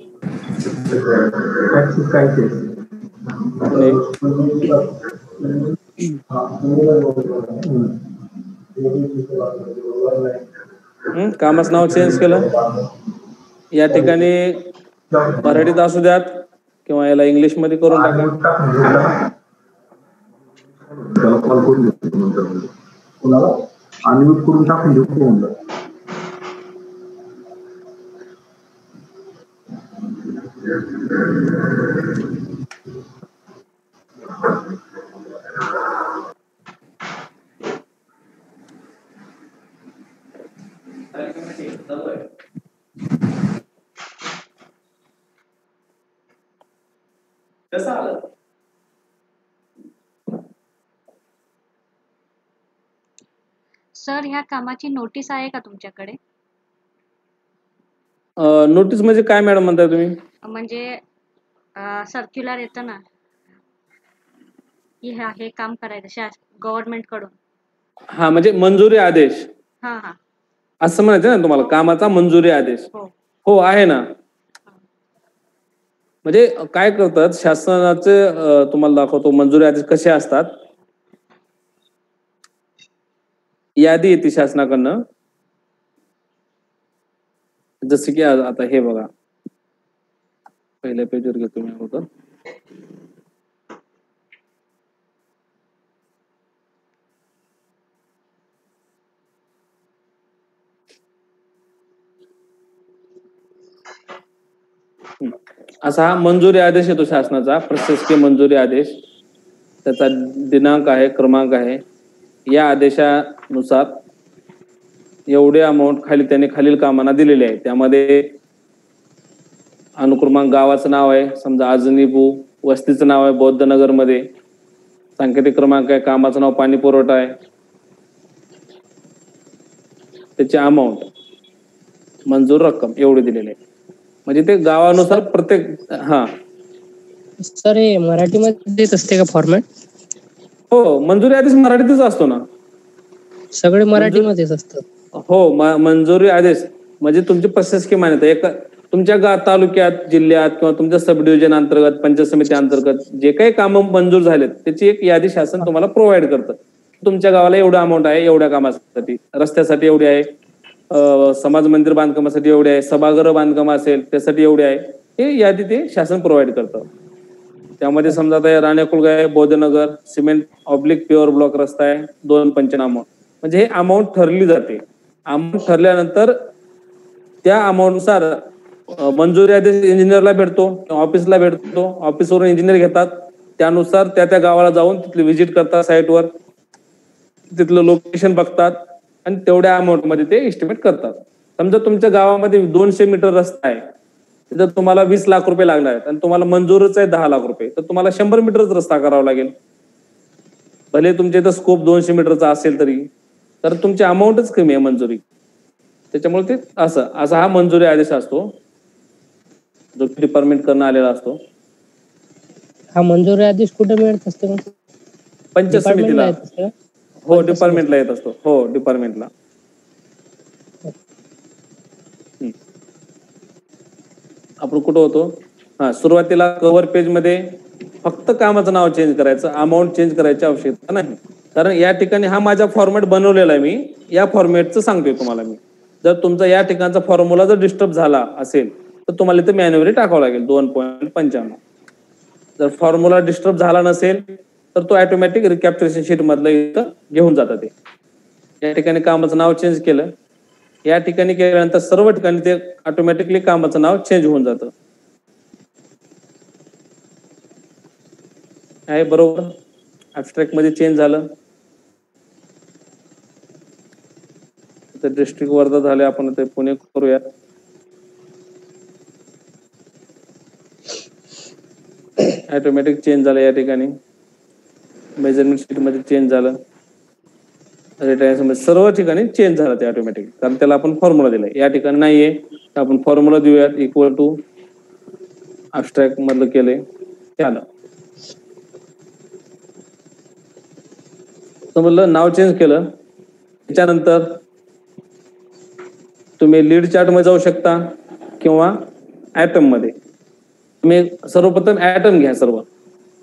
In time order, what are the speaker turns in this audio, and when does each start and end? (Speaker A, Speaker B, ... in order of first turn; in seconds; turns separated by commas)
Speaker A: 0.7-5.5, Speaker B: 3.7-4.0, Speaker A: 6.6-8.1, Speaker A: 8.8-10.3, Speaker B: 11.1-12.5, Speaker A: 11.8-12.9, Speaker B: 13.7-14.7, Speaker A: 15.1-15.7, Speaker B: 15.4-18.3, Speaker A: 17.9-19.3, Speaker A: 20.9-22.7, Speaker A: 24.1-25.5, Speaker A: 31.3-31.6, Speaker B: 41.1-42.2, Speaker B: 47.7-48.2, Speaker C: 53.9-56.2, Speaker B: 58.4-60.2, Speaker C: 60.4-61.0, Speaker C: 61.8-63.0, Speaker C: 65.0-67.3, Speaker B: 68.1-69.5, Speaker C: 69.8-70.2, Speaker B: 70.8-72.9, Speaker B: 73.5-74.1, Speaker B: 76.2-80.5, Speaker B: 83.8-85.0, Speaker B: 87.8-89.1, Speaker B: 90.8-92.1, Speaker B: 105.2-109.0, Speaker B: 109.8-111.8, Speaker B: 112.5-114.0, Speaker B: 115.3-118.3, Speaker B: 120.0-124.3, Speaker B: 125.2-127.4, Speaker B: 130.4-131.1, Speaker B: 132.3-133.6, Speaker B: 134.3-136.3, Speaker D: 137.4-139.7, Speaker B: 140.7-142.4, Speaker D: 143.5-144.8, Speaker B: 143.9-144.3, Speaker B: 145.2-160.3, Speaker B: 160.9-166.9, Speaker B: 167.8-176.5, Speaker B: 177.4-186.3, Speaker B: 187.5-193.8, Speaker B: 194.5-199.5, Speaker B: 200.9-203.1, Speaker B: 203.6-205.2, Speaker B: 206.1-208.6, Speaker B: 210.0-211.4, Speaker D: 213.0-214.7, Speaker B: 215.6-216.4, Speaker D: 215.7-216.7, Speaker B: 217.3-219.3, Speaker D: 217.3-217.9, Speaker B: 224.6-241.6, Speaker B: 242.6-247.7, Speaker B: 248.6-250.1, Speaker B: 250.8-254.7, Speaker B: 258.9-259.5, Speaker B: 260.1-261.3, Speaker B: 264.9-267.2, Speaker B: 272.5-274.0, Speaker B: 275.2-276.6, Speaker B: 278.0-284.4, Speaker B: 285.7-286.8, Speaker B: 287.4-287.6, Speaker B: 291.8-292.9, Speaker B: 293.7-294.4, Speaker B: 296.4-298.9, Speaker B: 299.4-299.9, Speaker B: 300.8-302.7